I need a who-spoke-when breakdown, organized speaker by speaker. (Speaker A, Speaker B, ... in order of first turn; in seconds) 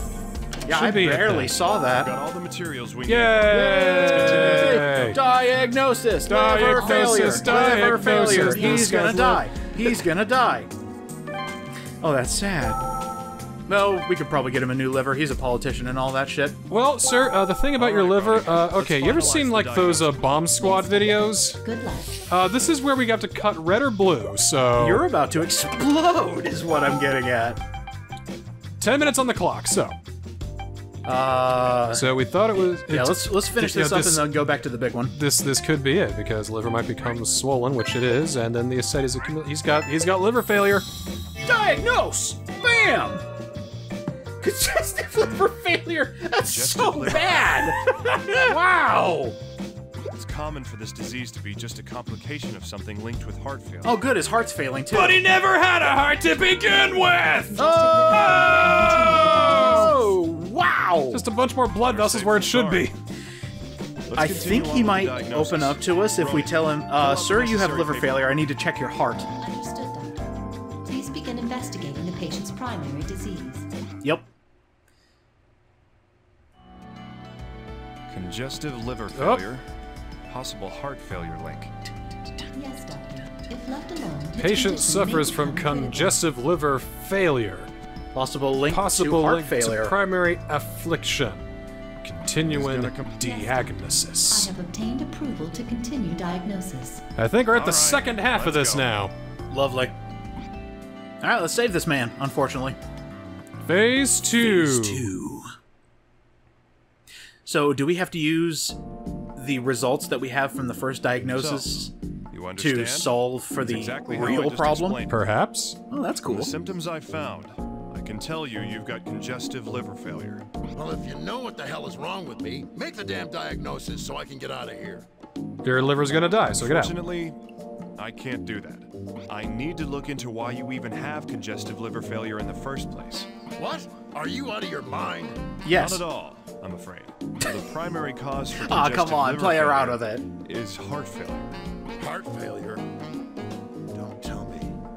Speaker A: 0.7-2.1, 3.5-10.7, 12.0-12.8, 13.7-16.6, 24.8-27.6, 31.0-35.1, 41.4-43.2, 44.4-49.4, 53.8-55.2, 57.6-58.6, 59.4-61.2, 64.2-69.3, 88.1-90.0, 99.5-100.0, 101.2-102.8, 104.4-105.5, 107.5-108.8, 109.4-111.9, 112.6-115.0, 115.9-116.5, 135.6-136.0, 138.6-140.2
Speaker B: 0.7-1.6, 3.1-5.2, 6.3-9.5, 16.7-21.6, 22.3-25.0, 28.8-30.0, 31.9-34.3, 35.1-40.9, 54.9-59.9, 61.1-62.9, 79.2-79.4, 84.4-87.7, 88.7-91.4, 92.0-94.5, 97.2-99.1, 103.7-105.1, 115.1-115.8, 125.6-127.0
Speaker C: 1.8-5.1, 17.8-20.3, 45.2-45.5, 46.5-47.8, 50.1-54.0, 61.9-62.9, 64.1-68.3, 78.1-79.6, 80.3-81.7, 92.5-93.1, 97.5-98.9, 111.3-111.7, 112.3-115.3, 116.3-120.4, 126.6-127.4, 128.0-133.3, 135.7-141.5
Speaker D: 6.6-9.0, 20.5-22.3, 57.5-60.1, 69.4-73.7, 82.5-86.2, 93.2-97.0
Speaker E: 120.8-125.1, 133.6-135.4, 142.0-142.8, 143.9-144.7